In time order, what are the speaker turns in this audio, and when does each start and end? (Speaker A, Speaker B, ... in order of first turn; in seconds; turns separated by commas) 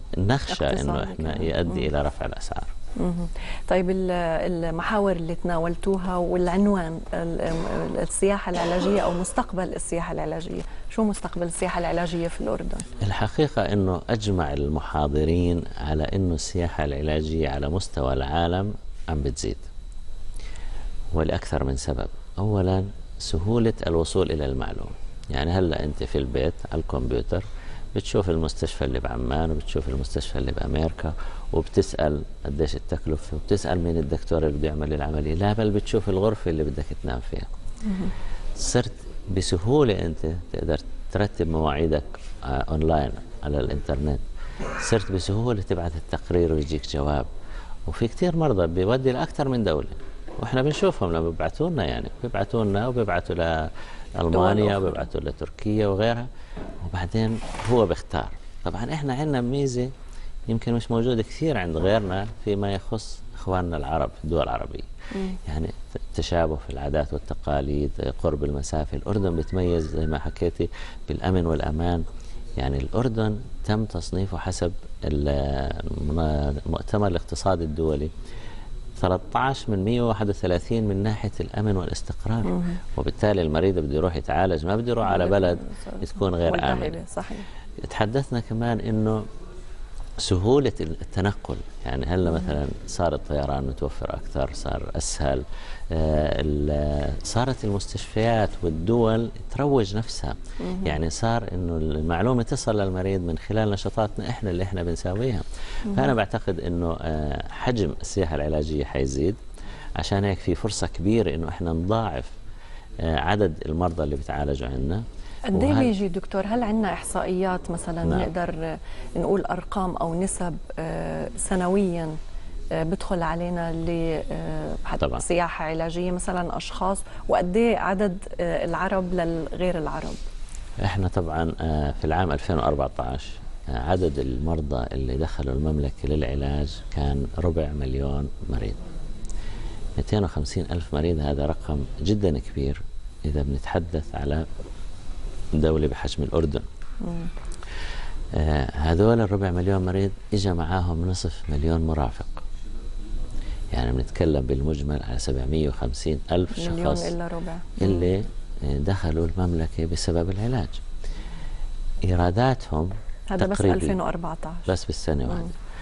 Speaker A: 0.2-2.7, Speaker B: 0.5-1.9, Speaker B: 3.0-12.9, Speaker A: 13.0-19.7, Speaker A: 21.1-37.5, Speaker B: 37.9-38.1, Speaker A: 38.6-44.2, Speaker A: 44.8-47.3, Speaker A: 47.9-56.3, Speaker B: 54.3-55.1, Speaker A: 56.8-59.9, Speaker A: 60.5-64.9, Speaker A: 65.5-72.0, Speaker A: 72.6-78.1, Speaker A: 79.0-87.0, Speaker B: 82.5-82.8, Speaker B: 85.0-87.5, Speaker A: 87.8-89.2, Speaker A: 90.2-109.4, Speaker B: 100.6-101.0, Speaker B: 105.9-106.1, Speaker A: 110.0-112.3, Speaker A: 113.0-116.0, Speaker B: 115.5-118.7, Speaker A: 118.0-118.3, Speaker B: 119.2-122.2, Speaker B: 122.8-130.2, Speaker A: 130.8-138.8, Speaker A: 140.0-144.4, Speaker A: 145.6-146.7, Speaker B: 147.0-147.3, Speaker A: 148.4-152.4, Speaker A: 153.7-157.1, Speaker B: 156.6-158.1, Speaker A: 157.8-160.8, Speaker A: 162.1-164.0, Speaker B: 163.3-164.7, Speaker A: 164.7-165.5